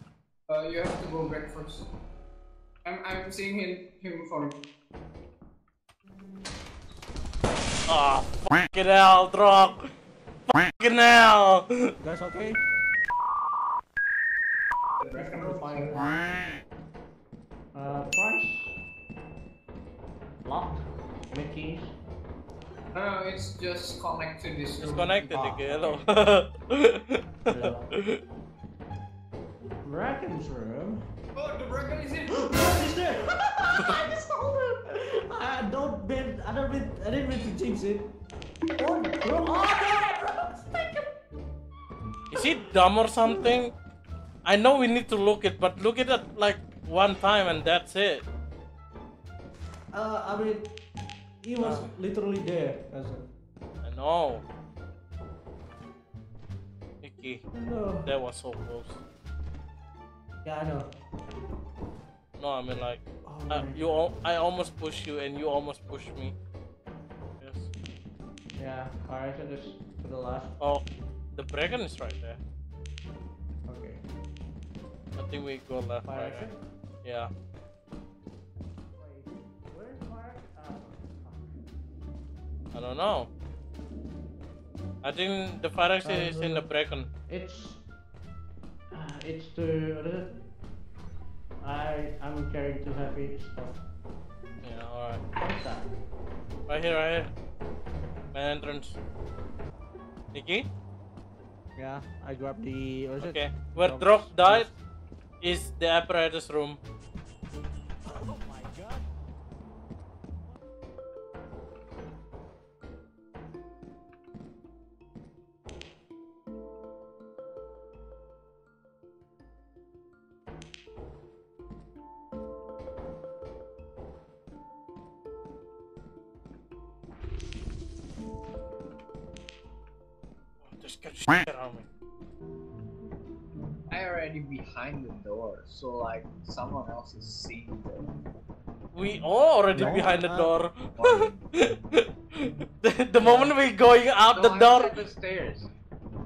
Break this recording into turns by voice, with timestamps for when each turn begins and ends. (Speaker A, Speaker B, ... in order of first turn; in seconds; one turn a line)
Speaker A: 0.5-1.9
Speaker A: 2.8-4.5
Speaker B: 7.9-9.8
Speaker B: 10.5-11.9
Speaker C: 12.0-12.6
Speaker A: 15.0-16.0
Speaker C: 15.2-16.1
Speaker C: 17.7-18.8
Speaker C: 20.4-21.9
Speaker A: 22.9-25.6
Speaker B: 24.8-28.2
Speaker C: 25.3-26.0
Speaker C: 27.5-27.8
Speaker C: 29.8-31.0
Speaker A: 31.3-32.4
Speaker C: 32.3-38.1
Speaker C: 38.8-41.1
Speaker B: 42.3-43.7
Speaker B: 44.4-48.2
Speaker C: 49.9-50.6
Speaker C: 51.4-53.3
Speaker B: 51.6-51.9
Speaker B: 53.8-54.4
Speaker B: 57.0-57.4
Speaker C: 57.5-58.1
Speaker B: 58.0-59.0
Speaker C: 60.4-60.9
Speaker B: 62.4-66.3
Speaker C: 63.2-63.8
Speaker B: 67.4-67.7
Speaker C: 68.6-70.6
Speaker B: 70.6-72.4
Speaker C: 73.7-74.0
Speaker B: 75.2-76.5
Speaker C: 76.0-76.6
Speaker B: 77.0-77.3
Speaker C: 78.9-81.6
Speaker B: 82.7-83.3
Speaker B: 85.0-87.1
Speaker C: 86.0-86.7
Speaker C: 87.3-87.8
Speaker C: 88.9-90.3
Speaker C: 91.6-93.8
Speaker B: 94.6-95.2
Speaker C: 95.4-95.9
Speaker B: 96.7-97.3
Speaker B: 98.3-99.0
Speaker B: 100.3-100.7
Speaker C: 101.8-104.7
Speaker B: 103.2-104.7
Speaker B: 105.4-106.8
Speaker C: 108.0-109.1
Speaker B: 130.6-131.8
Speaker A: 133.9-138.1
Speaker B: 138.9-145.1
Speaker C: 139.7-140.5
Speaker A: 140.9-141.4
Speaker C: 143.2-143.5
Speaker A: 144.3-145.7